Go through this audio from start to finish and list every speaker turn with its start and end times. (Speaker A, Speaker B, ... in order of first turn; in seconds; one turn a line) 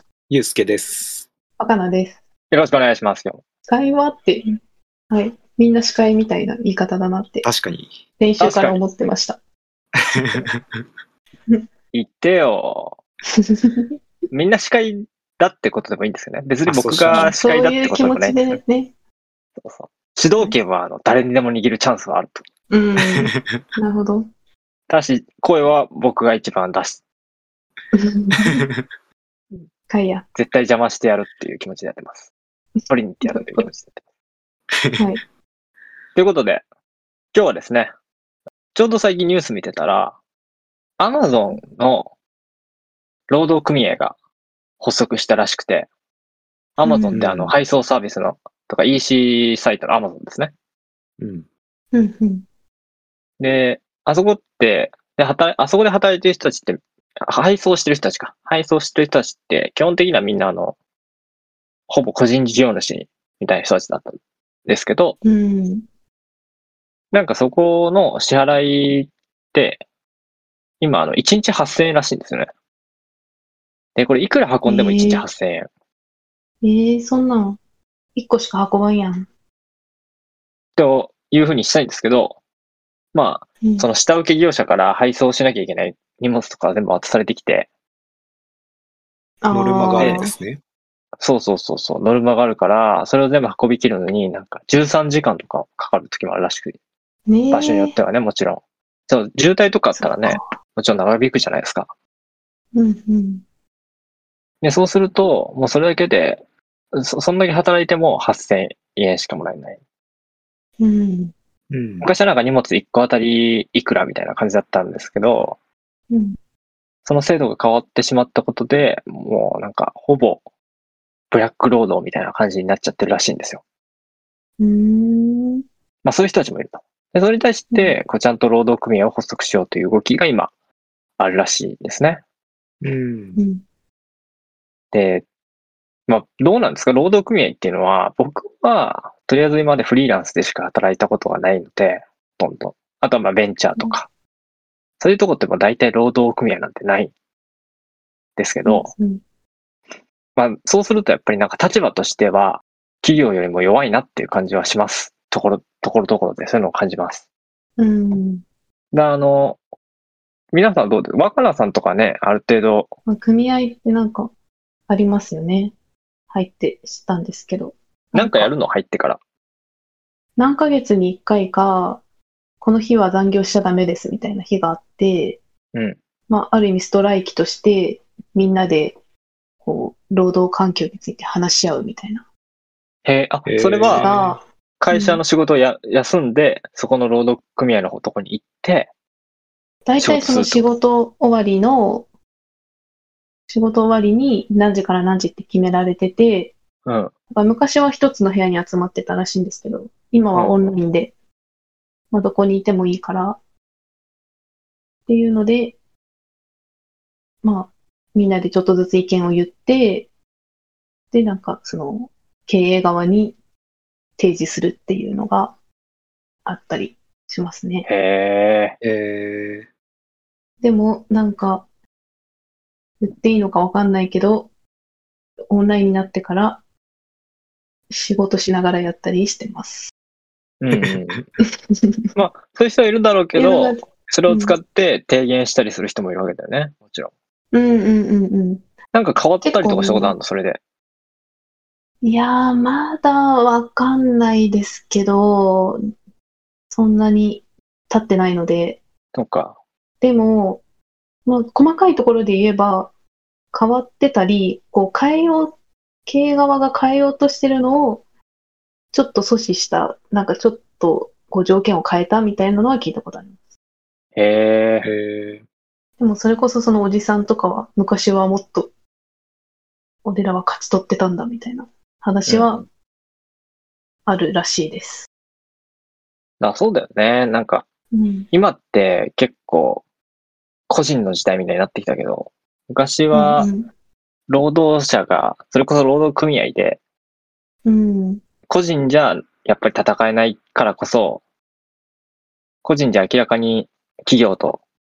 Speaker A: 0.3-1.3
Speaker B: 1.6-2.2
Speaker C: 2.5-3.4
Speaker B: 3.7-4.5
Speaker B: 5.1-7.5
Speaker A: 7.4-8.0
Speaker B: 8.2-9.4
Speaker C: 8.4-8.8
Speaker A: 10.2-10.8
Speaker C: 11.9-12.9
Speaker B: 13.4-13.9
Speaker C: 14.3-18.6
Speaker A: 16.6-17.3
Speaker B: 17.1-18.9
Speaker C: 19.6-22.4
Speaker B: 22.7-24.3
Speaker A: 23.2-23.6
Speaker C: 24.9-27.0
Speaker B: 27.9-28.6
Speaker A: 28.4-28.9
Speaker B: 29.9-30.2
Speaker C: 30.4-32.3
Speaker C: 32.9-34.0
Speaker B: 33.2-33.7
Speaker B: 35.0-35.2
Speaker C: 36.1-36.6
Speaker C: 37.3-37.9
Speaker C: 38.7-40.2
Speaker C: 41.0-42.1
Speaker C: 43.3-44.2
Speaker C: 44.8-45.9
Speaker C: 46.8-50.5
Speaker B: 46.9-47.2
Speaker A: 47.1-47.5
Speaker A: 51.2-51.5
Speaker B: 51.9-52.5
Speaker C: 53.4-60.8
Speaker C: 61.9-65.2
Speaker B: 65.2-65.8
Speaker C: 67.1-69.8
Speaker C: 70.8-72.5
Speaker C: 74.0-75.7
Speaker B: 74.7-75.3
Speaker B: 76.6-77.6
Speaker B: 78.2-79.3
Speaker C: 80.8-82.4
Speaker C: 83.1-87.7
Speaker B: 89.4-90.3
Speaker A: 89.5-90.6
Speaker C: 90.0-90.2
Speaker C: 91.2-96.8
Speaker B: 97.3-98.0
Speaker C: 97.5-101.9
Speaker B: 100.0-100.5
Speaker B: 102.7-103.4
Speaker C: 104.6-106.4
Speaker C: 106.9-109.8
Speaker B: 110.8-111.3
Speaker A: 111.7-112.1
Speaker C: 112.0-115.6
Speaker B: 116.1-116.4
Speaker C: 117.0-120.4
Speaker C: 121.3-123.6
Speaker B: 124.6-125.6
Speaker C: 126.0-130.5
Speaker B: 127.7-128.0
Speaker C: 131.2-132.2
Speaker A: 132.8-133.4
Speaker B: 133.4-133.6
Speaker C: 134.9-135.3
Speaker C: 136.1-144.1
Speaker C: 145.0-147.1
Speaker C: 148.4-148.9
Speaker B: 148.7-149.2
Speaker C: 150.4-157.2
Speaker B: 157.8-158.4
Speaker C: 158.9-159.6
Speaker C: 160.5-162.9
Speaker B: 163.1-164.3
Speaker B: 164.9-165.7
Speaker B: 166.3-168.5
Speaker C: 168.2-169.2
Speaker B: 170.4-172.0
Speaker B: 172.6-175.4
Speaker B: 176.3-179.0
Speaker B: 179.6-182.2
Speaker C: 183.1-184.2
Speaker A: 183.5-184.3
Speaker B: 184.0-185.2
Speaker C: 184.8-188.9
Speaker B: 189.9-192.1
Speaker C: 190.0-190.7
Speaker B: 193.5-196.5
Speaker C: 196.9-197.1
Speaker B: 197.3-201.1
Speaker C: 200.3-200.7
Speaker B: 202.1-203.4
Speaker B: 205.1-205.8
Speaker B: 207.4-210.1
Speaker B: 211.1-213.4
Speaker B: 214.2-215.6
Speaker B: 216.5-217.9
Speaker C: 217.9-218.8
Speaker A: 218.8-219.7
Speaker B: 220.6-221.7
Speaker B: 223.0-224.5
Speaker B: 225.5-226.6
Speaker B: 227.9-229.9
Speaker C: 230.6-231.2
Speaker A: 230.7-231.2
Speaker B: 231.7-232.0
Speaker C: 232.2-237.1
Speaker B: 233.3-234.6
Speaker B: 237.5-238.6
Speaker C: 238.9-240.6
Speaker B: 239.4-240.2
Speaker B: 242.0-245.8
Speaker B: 246.7-248.8
Speaker C: 249.1-249.6
Speaker B: 250.0-250.6
Speaker B: 251.3-252.9
Speaker B: 253.5-255.6
Speaker B: 256.1-258.0
Speaker B: 258.9-263.3
Speaker C: 264.2-264.9
Speaker A: 264.8-265.4
Speaker B: 266.0-268.7
Speaker B: 270.1-272.6
Speaker C: 272.3-272.6
Speaker B: 274.1-275.1
Speaker C: 276.4-277.7
Speaker B: 277.9-278.3
Speaker C: 278.3-279.8
Speaker C: 280.7-283.5
Speaker B: 283.1-283.7
Speaker C: 284.3-286.8
Speaker B: 287.6-288.2
Speaker C: 288.5-291.2
Speaker C: 292.6-294.6